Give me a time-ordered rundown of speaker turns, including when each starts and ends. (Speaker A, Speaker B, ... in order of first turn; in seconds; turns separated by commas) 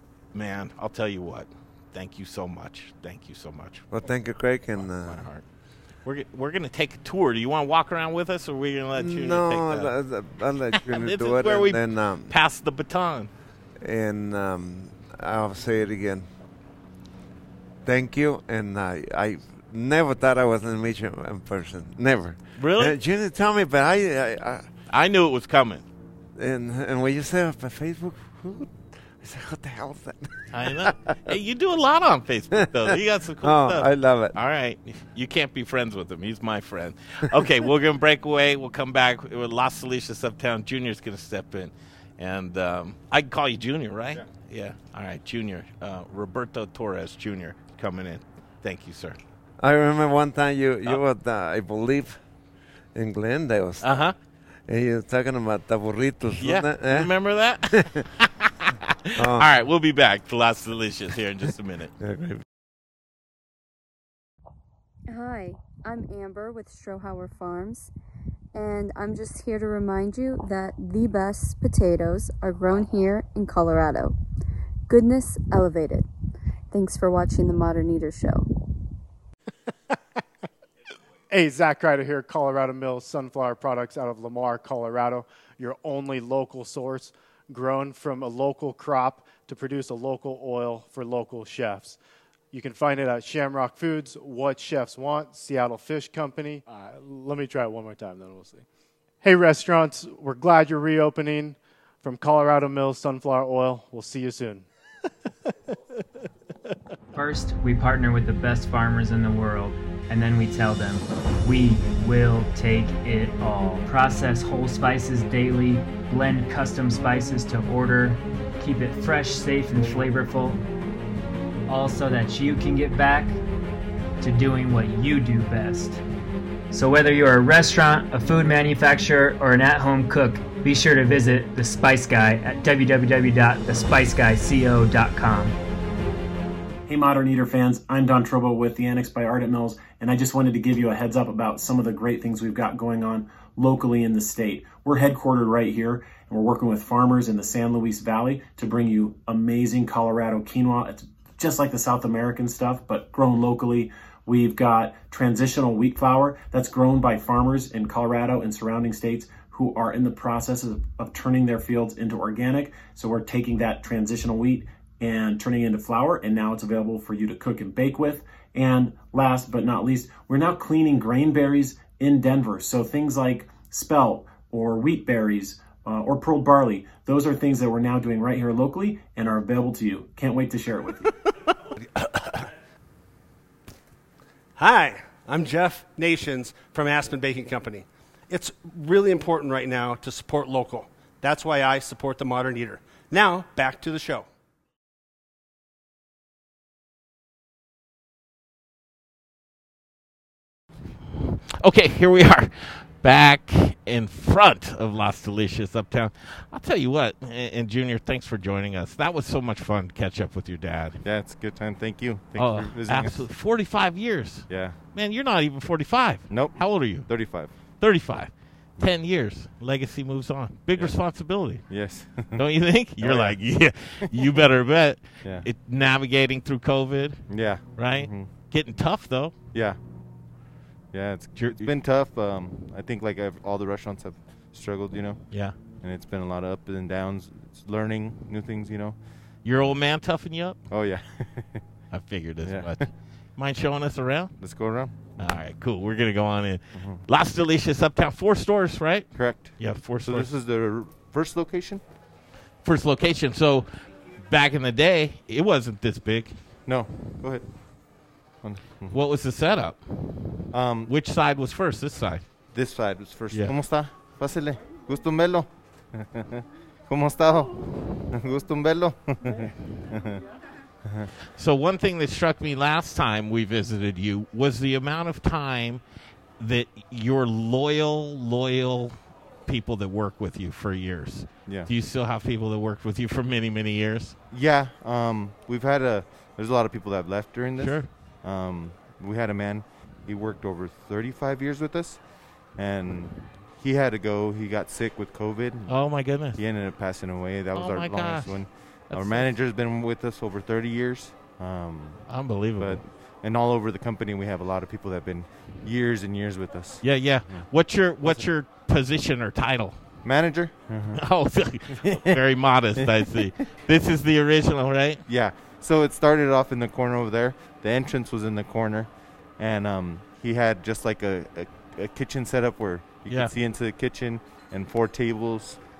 Speaker A: 0.3-3.9, Speaker B: 3.9-5.3, Speaker A: 4.8-5.4, Speaker A: 6.0-9.9, Speaker B: 8.9-12.3, Speaker A: 10.7-13.3, Speaker B: 13.8-16.3, Speaker B: 17.9-24.7, Speaker A: 22.6-23.0, Speaker A: 24.9-25.9, Speaker B: 26.4-31.2, Speaker A: 30.5-49.2, Speaker B: 32.6-34.4, Speaker B: 49.6-52.2, Speaker B: 53.0-53.9, Speaker A: 53.8-54.1, Speaker B: 54.7-57.1, Speaker A: 56.4-61.9, Speaker B: 57.7-58.1, Speaker B: 59.2-59.5, Speaker B: 62.0-62.4, Speaker C: 65.1-67.9, Speaker C: 68.5-74.2, Speaker C: 74.9-76.1, Speaker C: 76.7-78.5, Speaker D: 81.3-92.0, Speaker D: 92.5-98.7, Speaker D: 99.2-104.7, Speaker E: 107.1-120.6, Speaker E: 121.7-123.4, Speaker E: 124.2-126.0, Speaker E: 126.7-135.6, Speaker F: 136.9-181.1, Speaker G: 184.6-194.3, Speaker A: 201.6-211.0, Speaker H: 211.0-213.2, Speaker A: 212.4-217.1, Speaker H: 214.5-214.8, Speaker H: 216.3-217.5, Speaker A: 217.8-221.7, Speaker H: 221.7-222.4, Speaker A: 222.3-227.2, Speaker H: 223.0-223.4, Speaker H: 227.3-228.3, Speaker A: 227.8-229.3, Speaker H: 230.9-235.2, Speaker A: 231.3-231.8, Speaker H: 235.8-239.0, Speaker A: 239.4-240.6, Speaker H: 240.7-241.6, Speaker A: 241.9-244.3, Speaker H: 242.4-242.9, Speaker H: 244.4-245.1, Speaker A: 245.2-250.3, Speaker H: 246.8-247.0, Speaker H: 249.2-251.8, Speaker A: 252.6-253.7, Speaker A: 254.2-256.4, Speaker H: 256.7-257.4, Speaker H: 258.4-259.0, Speaker A: 258.9-262.3, Speaker H: 260.5-260.9, Speaker H: 262.5-270.2, Speaker A: 263.3-263.6, Speaker A: 271.4-275.8, Speaker A: 276.4-278.9, Speaker A: 279.5-284.2, Speaker H: 284.3-292.0, Speaker A: 287.6-287.9, Speaker H: 292.6-295.7, Speaker A: 295.7-296.4, Speaker H: 296.4-302.0, Speaker A: 297.5-298.4, Speaker A: 298.9-299.3, Speaker A: 302.1-302.8, Speaker H: 302.6-307.5, Speaker A: 306.8-309.8, Speaker H: 310.0-311.0, Speaker A: 310.9-315.0, Speaker H: 311.8-312.2, Speaker H: 312.8-313.3, Speaker H: 315.1-325.6, Speaker A: 323.1-323.3